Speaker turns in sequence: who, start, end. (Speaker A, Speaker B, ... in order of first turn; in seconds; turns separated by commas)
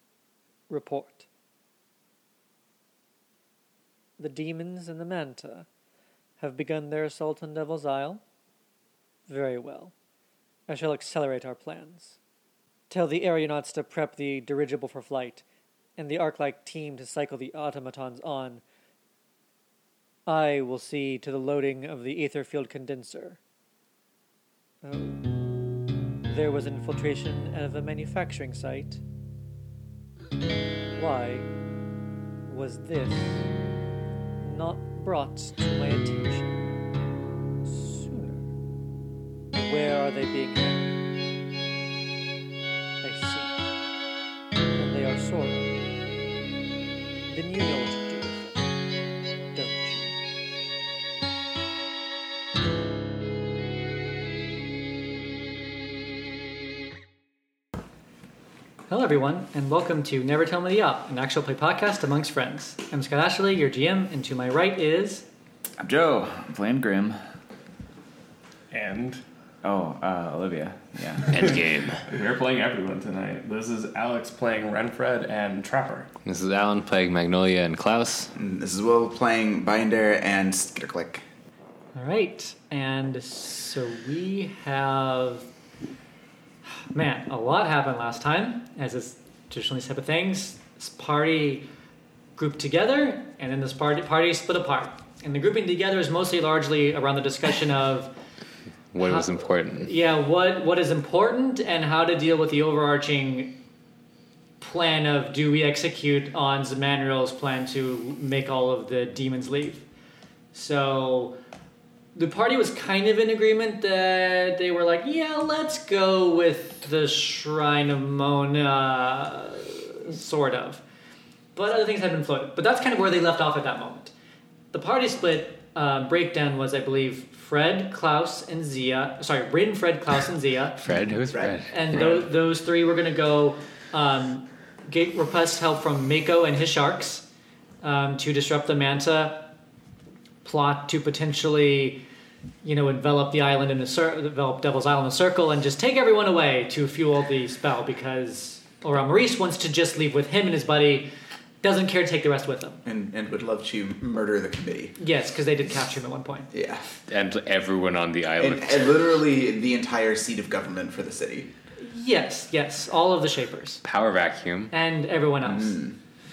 Speaker A: 0.7-1.2, Speaker A: 4.2-5.7, Speaker A: 6.4-8.2, Speaker A: 9.3-9.9, Speaker A: 10.7-12.2, Speaker A: 12.9-15.4, Speaker A: 16.0-18.6, Speaker A: 20.3-23.4, Speaker A: 24.8-25.2, Speaker A: 26.3-29.0, Speaker A: 30.9-31.5, Speaker A: 32.5-33.4, Speaker A: 34.4-36.7, Speaker A: 37.6-38.5, Speaker A: 39.5-40.9, Speaker A: 43.0-43.6, Speaker A: 44.7-45.8, Speaker A: 47.3-48.7, Speaker A: 49.5-50.1, Speaker A: 58.9-65.2, Speaker B: 65.8-67.2, Speaker C: 68.7-69.2, Speaker B: 69.6-71.4, Speaker D: 71.3-72.0, Speaker C: 72.0-76.1, Speaker D: 76.2-78.3, Speaker E: 78.3-81.2, Speaker A: 81.9-85.5, Speaker A: 86.9-91.6, Speaker A: 92.3-98.1, Speaker D: 98.9-99.9, Speaker A: 99.0-103.5, Speaker A: 104.6-109.8, Speaker A: 110.5-111.3, Speaker A: 112.1-120.8, Speaker A: 121.5-124.1, Speaker A: 124.7-130.8, Speaker D: 130.8-131.7, Speaker A: 131.7-137.2, Speaker A: 137.8-139.5, Speaker A: 140.4-142.0, Speaker A: 142.6-151.1, Speaker A: 151.6-152.8, Speaker E: 152.8-154.9, Speaker A: 155.0-156.5, Speaker E: 156.5-156.9, Speaker D: 157.1-159.0, Speaker E: 158.4-161.5, Speaker A: 161.8-163.8, Speaker D: 163.8-164.7, Speaker A: 164.7-165.8, Speaker E: 165.4-165.9